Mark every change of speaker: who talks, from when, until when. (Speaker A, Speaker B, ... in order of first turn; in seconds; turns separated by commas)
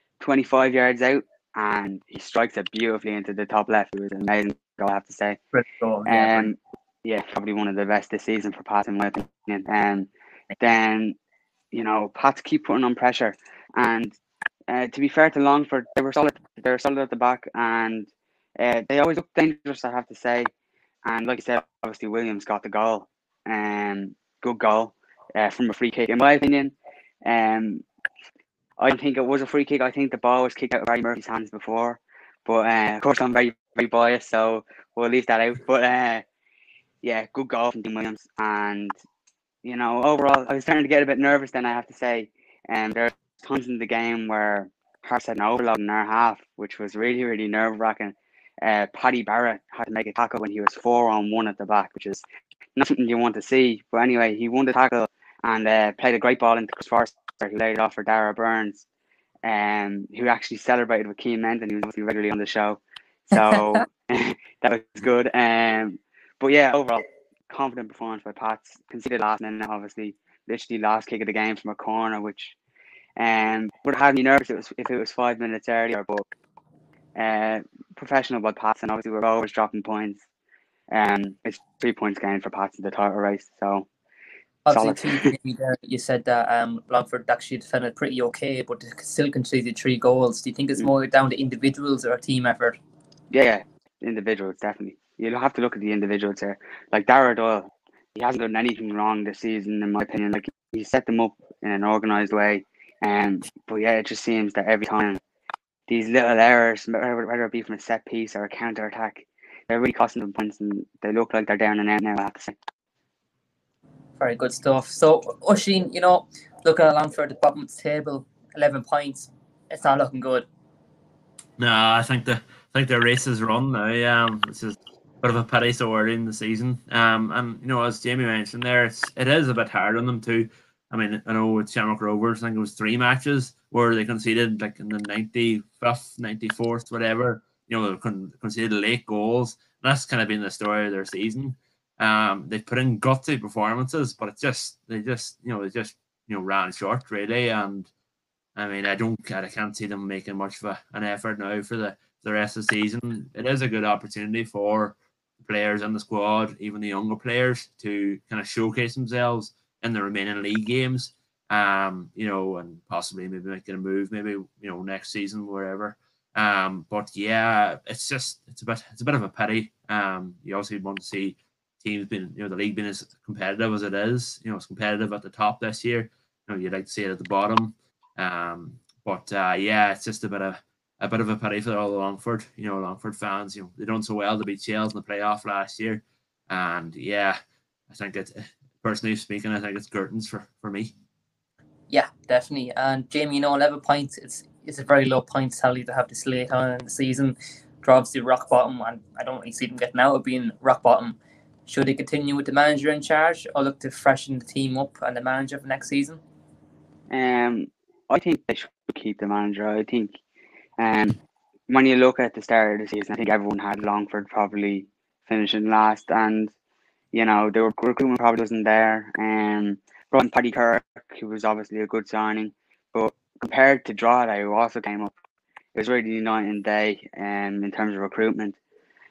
Speaker A: 0.2-5.4, Speaker B: 5.5-6.5, Speaker A: 6.1-10.1, Speaker A: 10.6-11.2, Speaker A: 11.7-14.2, Speaker A: 14.7-20.5, Speaker A: 21.1-27.8, Speaker A: 28.8-36.2, Speaker A: 37.0-38.9, Speaker A: 39.6-52.2, Speaker A: 52.8-58.9, Speaker A: 59.4-72.6, Speaker B: 63.3-63.9, Speaker A: 73.2-76.3, Speaker A: 77.2-80.2, Speaker A: 80.9-83.9, Speaker B: 84.7-92.8, Speaker A: 84.7-85.3, Speaker A: 93.3-105.2, Speaker A: 105.9-112.6, Speaker B: 114.2-120.5, Speaker C: 121.6-147.9, Speaker C: 148.6-187.4, Speaker C: 187.9-190.9, Speaker B: 191.9-206.2, Speaker A: 207.1-210.2, Speaker A: 210.8-211.2, Speaker A: 211.7-216.5, Speaker A: 217.1-225.1, Speaker A: 225.8-228.6